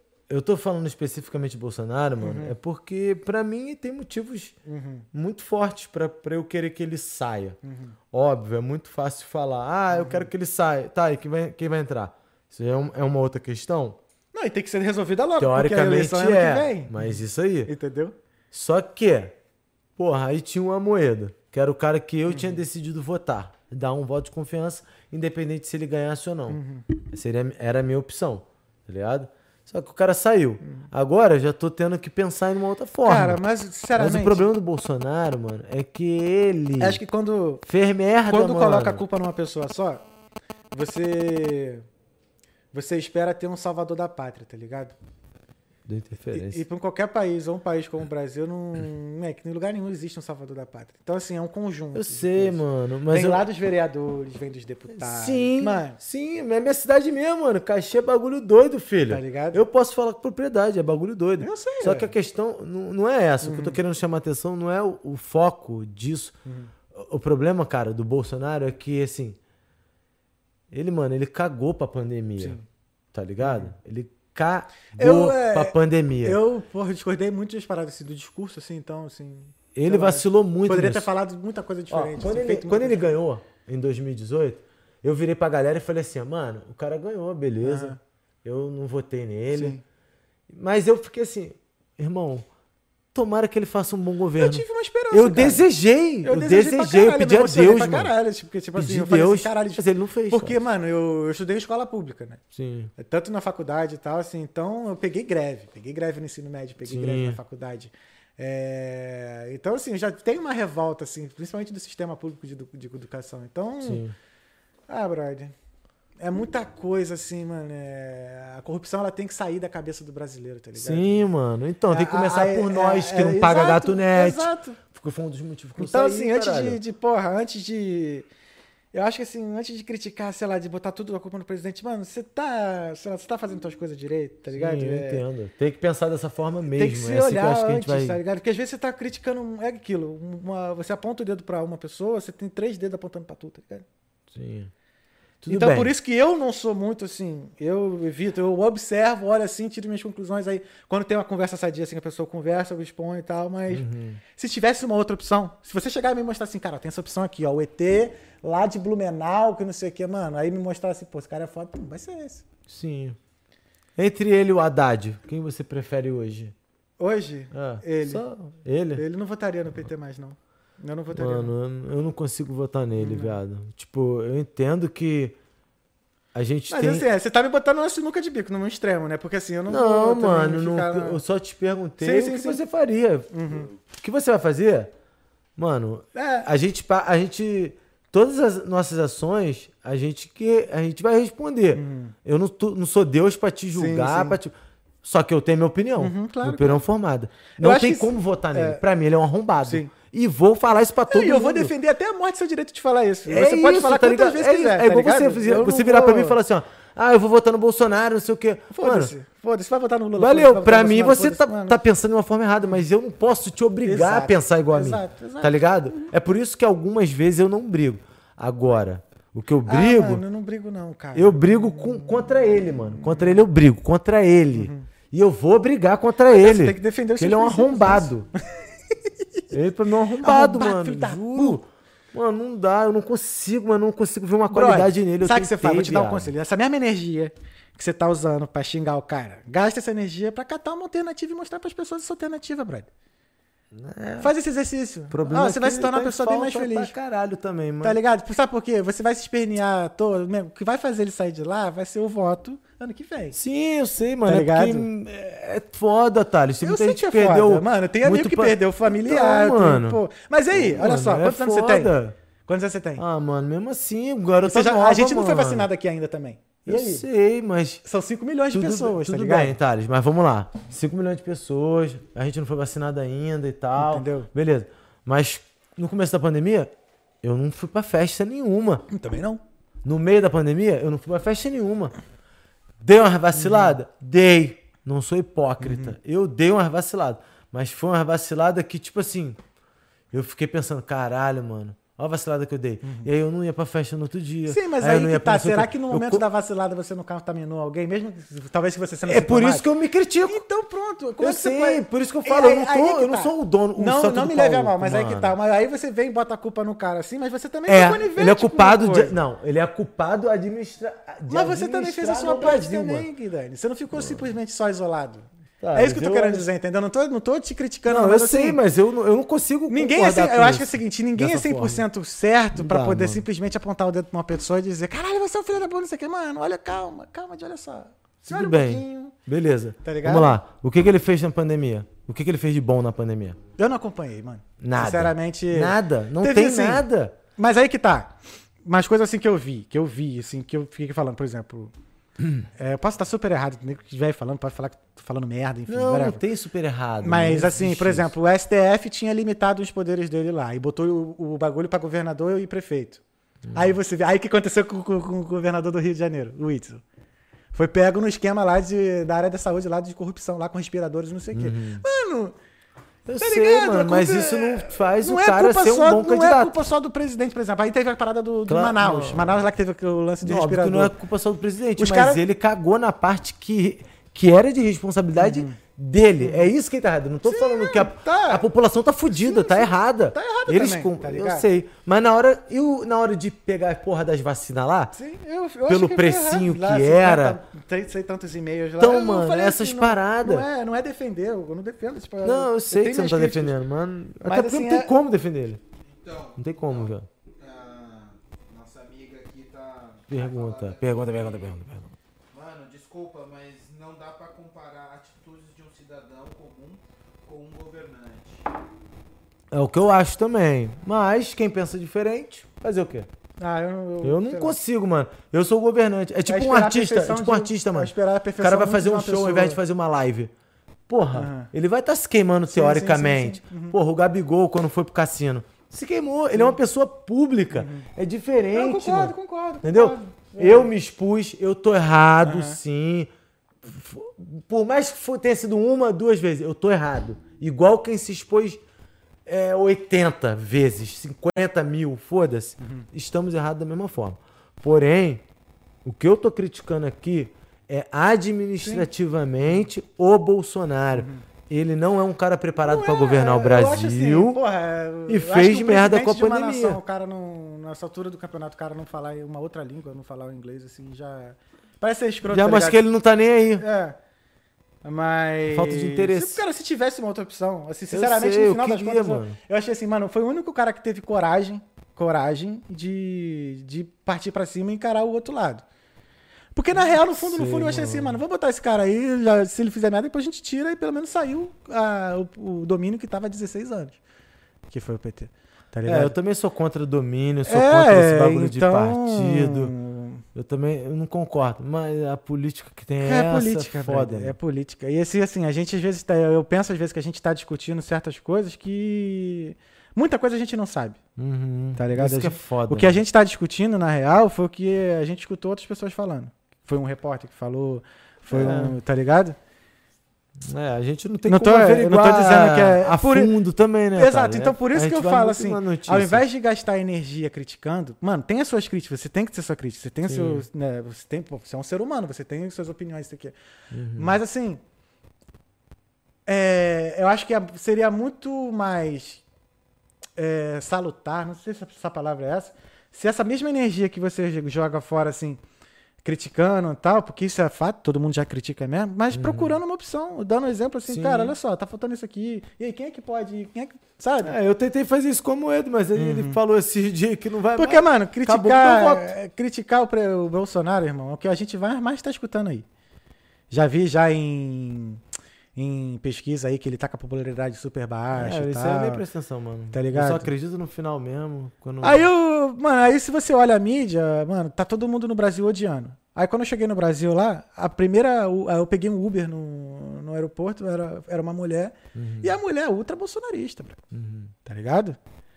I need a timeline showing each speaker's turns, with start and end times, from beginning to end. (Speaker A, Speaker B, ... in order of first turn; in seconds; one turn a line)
Speaker A: 0.3-4.6
Speaker B: 2.2-2.5
Speaker B: 4.7-5.1
Speaker A: 5.1-7.6
Speaker B: 7.6-8.0
Speaker A: 8.1-14.0
Speaker B: 9.9-10.3
Speaker B: 14.3-18.1
Speaker A: 15.4-17.7
Speaker A: 18.5-19.4
Speaker A: 20.0-33.4
Speaker B: 22.3-22.6
Speaker B: 26.5-26.9
Speaker B: 33.0-34.5
Speaker A: 33.9-37.0
Speaker B: 36.8-37.6
Speaker A: 37.6-39.0
Speaker B: 38.3-40.0
Speaker B: 40.7-41.9
Speaker B: 42.7-45.0
Speaker A: 45.9-46.6
Speaker B: 46.3-56.0
Speaker A: 51.9-53.4
Speaker A: 54.9-66.3
Speaker B: 59.1-59.6
Speaker B: 61.4-62.1
Speaker B: 63.4-63.8
Speaker B: 66.5-66.7
Speaker A: 66.9-69.4
Speaker A: 70.7-72.6
Speaker B: 72.4-72.6
Speaker A: 73.1-76.4
Speaker B: 73.4-73.7
Speaker B: 75.0-83.2
Speaker A: 79.7-81.1
Speaker A: 81.9-89.8
Speaker B: 87.6-88.0
Speaker B: 89.5-89.8
Speaker A: 90.5-92.5
Speaker A: 93.1-98.1
Speaker B: 94.4-95.6
Speaker B: 96.2-102.4
Speaker A: 98.7-100.6
Speaker A: 102.5-102.9
Speaker B: 103.0-114.0
Speaker A: 106.8-107.4
Speaker A: 113.8-114.1
Speaker B: 114.9-115.5
Speaker B: 116.2-121.3
Speaker A: 120.8-126.8
Speaker B: 121.9-124.8
Speaker B: 125.8-128.3
Speaker B: 128.9-135.2
Speaker A: 134.5-138.2
Speaker B: 136.7-143.8
Speaker A: 144.3-144.7
Speaker A: 145.4-145.9
Speaker B: 145.5-162.4
Speaker A: 153.7-154.2
Speaker A: 162.7-163.2
Speaker A: 163.9-166.6
Speaker B: 167.0-168.2
Speaker A: 167.5-169.0
Speaker B: 168.9-171.5
Speaker A: 171.1-175.4
Speaker B: 173.0-173.4
Speaker A: 176.3-177.1
Speaker B: 176.7-181.2
Speaker A: 179.7-184.9
Speaker B: 182.0-182.6
Speaker B: 183.3-183.7
Speaker A: 185.6-201.7
Speaker B: 186.1-186.5
Speaker B: 191.7-192.2
Speaker B: 193.7-194.4
Speaker B: 196.0-196.8
Speaker B: 197.6-198.8
Speaker B: 199.6-199.9
Speaker B: 201.1-206.4
Speaker A: 203.3-209.1
Speaker B: 208.7-211.8
Speaker A: 210.2-220.2
Speaker B: 213.8-216.1
Speaker B: 219.7-223.4
Speaker A: 221.2-228.3
Speaker B: 224.5-224.9
Speaker B: 226.3-228.1
Speaker A: 229.5-236.3
Speaker B: 230.2-231.6
Speaker B: 234.5-242.9
Speaker A: 243.7-244.3
Speaker B: 244.2-246.9
Speaker A: 245.1-248.0
Speaker B: 247.8-253.4
Speaker A: 253.3-260.0
Speaker B: 254.3-254.9
Speaker B: 256.6-261.9
Speaker A: 260.5-262.1
Speaker B: 262.5-263.0
Speaker A: 263.0-265.7
Speaker B: 264.4-267.1
Speaker A: 266.6-267.8
Speaker B: 267.8-269.6
Speaker A: 268.5-276.7
Speaker B: 273.8-274.3
Speaker A: 277.2-278.9
Speaker B: 278.9-279.4
Speaker A: 279.8-281.9
Speaker A: 282.8-289.4
Speaker B: 283.3-283.8
Speaker B: 285.6-285.9
Speaker A: 290.1-296.2
Speaker B: 292.8-293.1
Speaker B: 294.5-299.7
Speaker A: 299.1-300.4
Speaker B: 300.3-309.1
Speaker A: 301.2-305.4
Speaker A: 307.7-313.1
Speaker B: 311.3-318.6
Speaker A: 313.9-314.3
Speaker A: 315.6-316.5
Speaker A: 317.9-321.9
Speaker B: 319.7-329.1
Speaker A: 322.6-323.2
Speaker A: 328.2-333.4
Speaker B: 329.8-330.4
Speaker B: 333.6-336.9
Speaker A: 334.6-337.1
Speaker B: 337.4-341.7
Speaker B: 342.6-346.2
Speaker A: 345.7-348.1
Speaker B: 347.0-353.0
Speaker B: 353.5-356.8
Speaker B: 357.5-362.4
Speaker A: 361.3-361.8
Speaker A: 363.1-366.6
Speaker B: 363.2-370.9
Speaker A: 368.5-369.4
Speaker A: 370.2-384.9
Speaker B: 371.8-372.2
Speaker B: 375.2-375.6
Speaker B: 376.2-376.5
Speaker B: 377.2-378.4
Speaker B: 379.1-381.5
Speaker B: 384.9-393.6
Speaker A: 385.7-387.4
Speaker A: 388.8-390.4
Speaker A: 392.2-395.6
Speaker B: 394.2-394.9
Speaker C: 395.8-401.6
Speaker A: 396.4-397.1
Speaker A: 400.1-401.9
Speaker C: 402.3-408.4
Speaker A: 409.5-413.1
Speaker B: 413.4-414.6
Speaker A: 414.0-420.3
Speaker B: 416.3-419.6
Speaker A: 420.9-433.1
Speaker B: 421.1-421.5
Speaker B: 422.5-423.8
Speaker B: 426.3-426.6
Speaker B: 427.5-427.9
Speaker B: 428.5-430.7
Speaker B: 432.2-432.6
Speaker A: 433.6-438.6
Speaker A: 439.3-445.2
Speaker B: 442.6-442.9
Speaker A: 445.9-454.4
Speaker B: 448.6-448.9
Speaker B: 450.9-451.2
Speaker B: 452.6-462.8
Speaker A: 455.1-456.8
Speaker A: 462.2-463.6
Speaker B: 463.6-464.0
Speaker B: 464.8-475.6
Speaker A: 465.5-466.4
Speaker A: 467.9-469.4
Speaker B: 476.6-484.0
Speaker A: 476.8-478.2
Speaker B: 484.7-486.1
Speaker A: 485.9-489.7
Speaker B: 487.4-490.2
Speaker A: 490.4-494.4
Speaker B: 493.0-501.0
Speaker A: 501.2-503.0
Speaker B: 501.8-509.4
Speaker A: 508.3-508.8
Speaker A: 510.4-516.2
Speaker B: 511.3-513.3
Speaker B: 513.9-523.4
Speaker A: 520.1-520.5
Speaker A: 523.7-524.2
Speaker B: 523.9-524.6
Speaker B: 526.3-529.2
Speaker B: 530.2-535.4
Speaker B: 536.0-544.4
Speaker A: 539.1-539.6
Speaker A: 540.9-541.4
Speaker A: 544.2-549.1
Speaker B: 545.9-546.4
Speaker B: 547.6-552.6
Speaker B: 553.5-555.0
Speaker B: 555.6-559.0
Speaker A: 558.1-562.1
Speaker B: 559.7-560.3
Speaker B: 561.8-573.8
Speaker A: 571.9-572.3
Speaker A: 573.9-574.3
Speaker B: 574.4-575.0